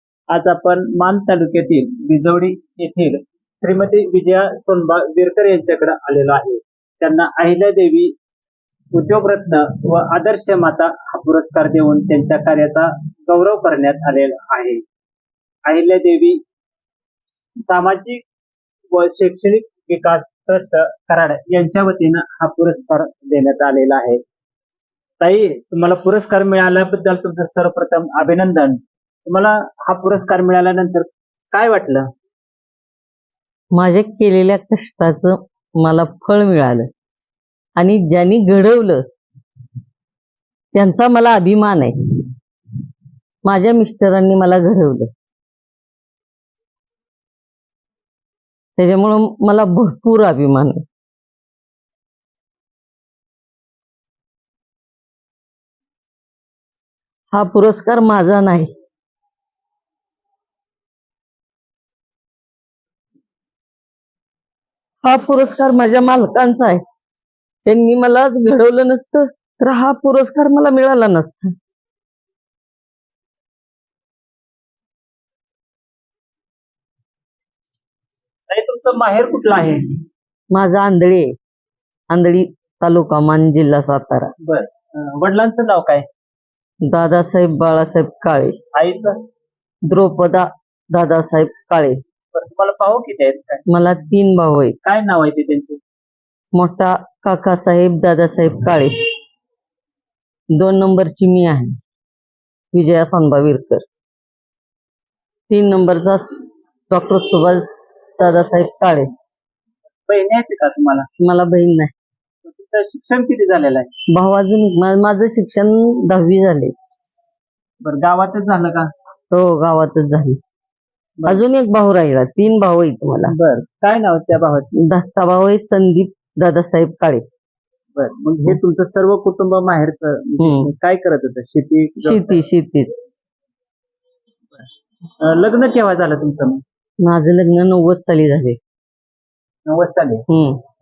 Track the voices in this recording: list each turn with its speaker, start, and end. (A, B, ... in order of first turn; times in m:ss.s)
0:00.3-0:08.1 A
0:08.9-0:14.8 A
0:15.6-0:16.4 A
0:17.6-0:18.2 A
0:18.9-0:24.2 A
0:25.2-0:32.1 A
0:33.7-0:36.9 B
0:37.8-0:39.0 B
0:40.7-0:42.0 B
0:43.4-0:45.1 B
0:48.8-0:50.8 B
0:57.3-0:58.7 B
1:05.0-1:06.8 B
1:07.6-1:11.5 B
1:18.5-1:20.0 A
1:20.5-1:21.3 B
1:22.1-1:24.3 B
1:24.4-1:26.1 A
1:26.8-1:28.6 B
1:28.7-1:29.2 A
1:29.9-1:32.0 B
1:32.3-1:33.6 A
1:33.7-1:34.8 B
1:34.8-1:35.8 A
1:36.5-1:38.9 B
1:40.6-1:41.7 B
1:42.7-1:43.8 B
1:45.5-1:46.4 B
1:46.9-1:49.1 B
1:50.1-1:51.1 A
1:51.2-1:51.9 B
1:52.4-1:53.9 A
1:54.1-1:56.7 B
1:57.8-1:58.9 A
1:59.3-2:00.4 B
2:01.3-2:03.3 B
2:03.3-2:04.7 A
2:04.8-2:07.2 B
2:08.0-2:12.4 A
2:10.4-2:10.7 B
2:12.0-2:13.0 B
2:15.2-2:16.6 A
2:17.0-2:18.6 B
2:19.7-2:20.2 A
2:20.3-2:20.6 B